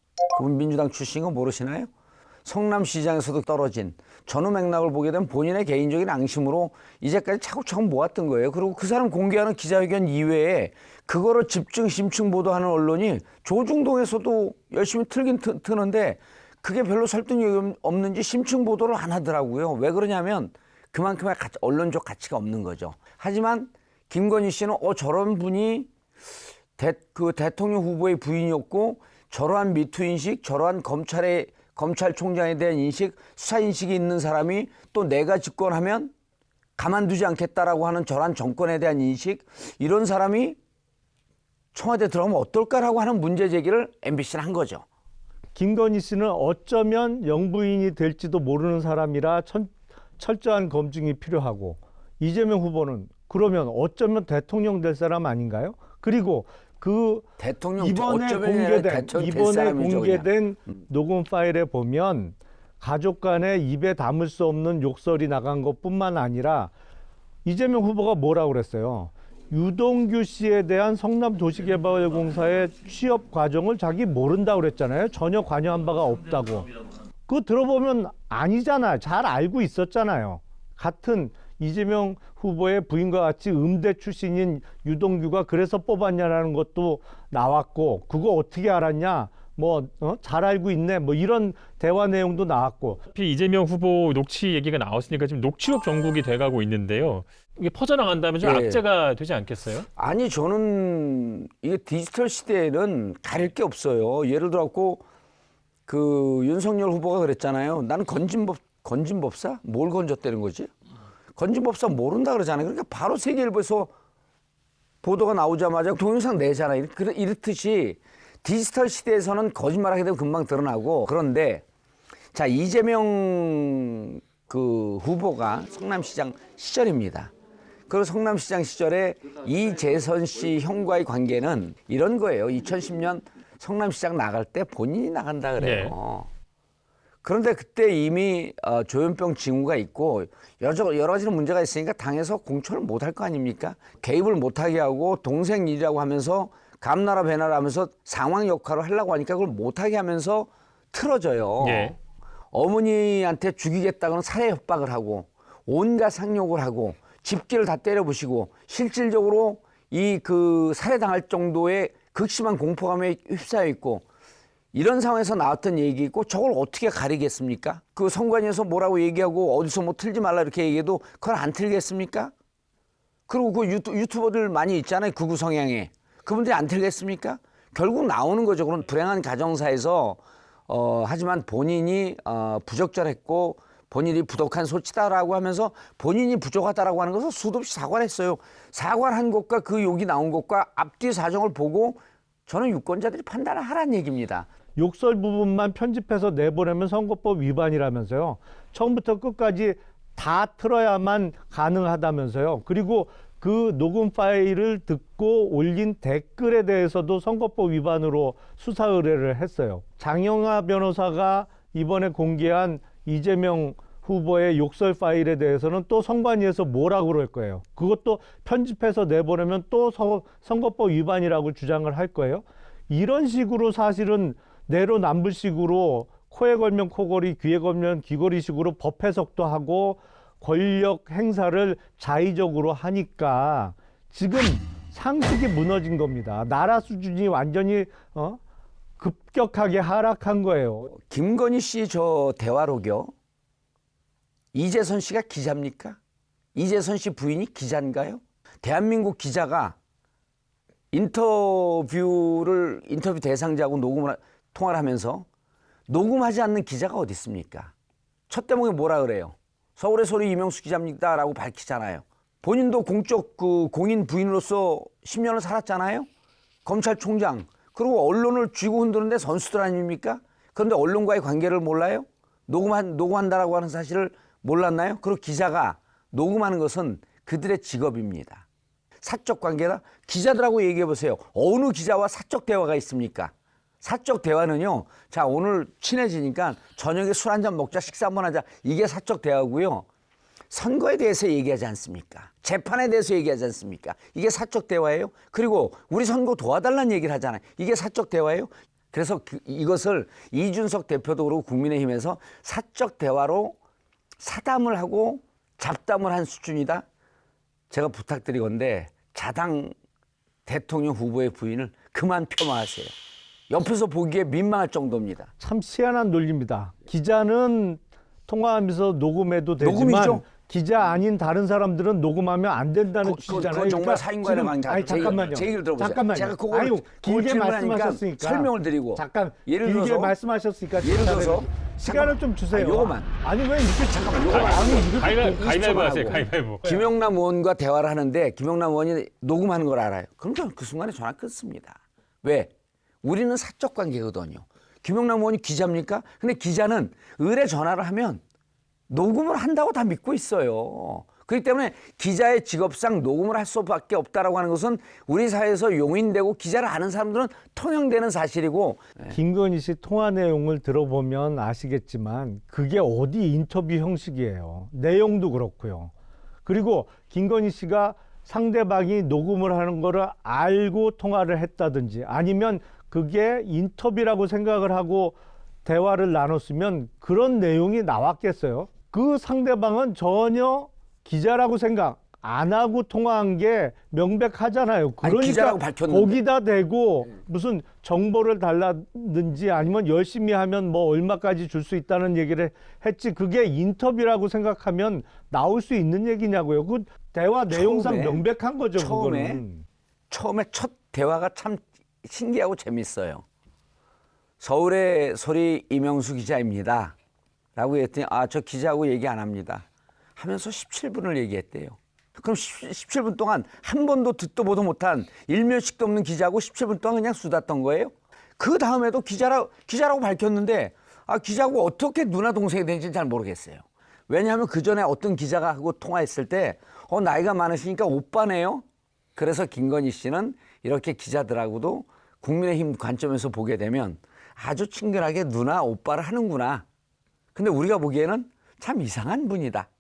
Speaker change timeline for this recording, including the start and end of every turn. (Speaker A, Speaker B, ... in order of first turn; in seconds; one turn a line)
Speaker A: 0.3-1.9
Speaker A: 2.5-25.9
Speaker A: 26.8-36.1
Speaker A: 36.8-40.6
Speaker A: 41.7-44.9
Speaker B: 45.5-57.3
Speaker A: 57.4-60.3
Speaker B: 57.8-66.7
Speaker B: 67.5-76.7
Speaker B: 77.3-93.0
Speaker C: 93.1-99.9
Speaker A: 98.4-98.8
Speaker A: 100.0-105.0
Speaker A: 105.9-110.7
Speaker A: 111.4-113.9
Speaker A: 115.0-121.6
Speaker A: 122.3-127.3
Speaker A: 127.9-136.3
Speaker C: 135.6-136.0
Speaker A: 137.2-152.0
Speaker C: 151.6-152.0
Speaker A: 152.5-164.1
Speaker A: 164.7-172.3
Speaker A: 173.3-194.5
Speaker B: 194.8-238.4
Speaker B: 239.0-240.9
Speaker A: 240.9-243.1
Speaker A: 244.5-246.0
Speaker A: 246.6-249.8
Speaker A: 250.9-255.3
Speaker A: 255.9-257.7
Speaker A: 258.3-266.1
Speaker A: 266.6-278.4
Speaker A: 279.0-289.9
Speaker A: 290.5-303.6
Speaker A: 304.2-306.9
Speaker A: 307.7-309.7
Speaker A: 310.5-312.9
Speaker A: 313.5-315.3
Speaker B: 315.4-335.6
Speaker A: 319.6-320.3
Speaker A: 323.0-330.2
Speaker A: 330.8-333.2
Speaker A: 333.8-342.5
Speaker C: 334.3-336.6
Speaker B: 336.4-336.9
Speaker A: 343.0-348.2
Speaker A: 348.9-359.2
Speaker B: 359.1-365.9
Speaker B: 366.4-399.6
Speaker A: 385.0-386.2
Speaker A: 397.5-398.3
Speaker A: 398.8-399.4
Speaker A: 400.1-403.2
Speaker A: 404.4-406.9
Speaker A: 407.6-409.6
Speaker A: 410.2-428.6
Speaker A: 429.2-436.6
Speaker A: 437.4-439.7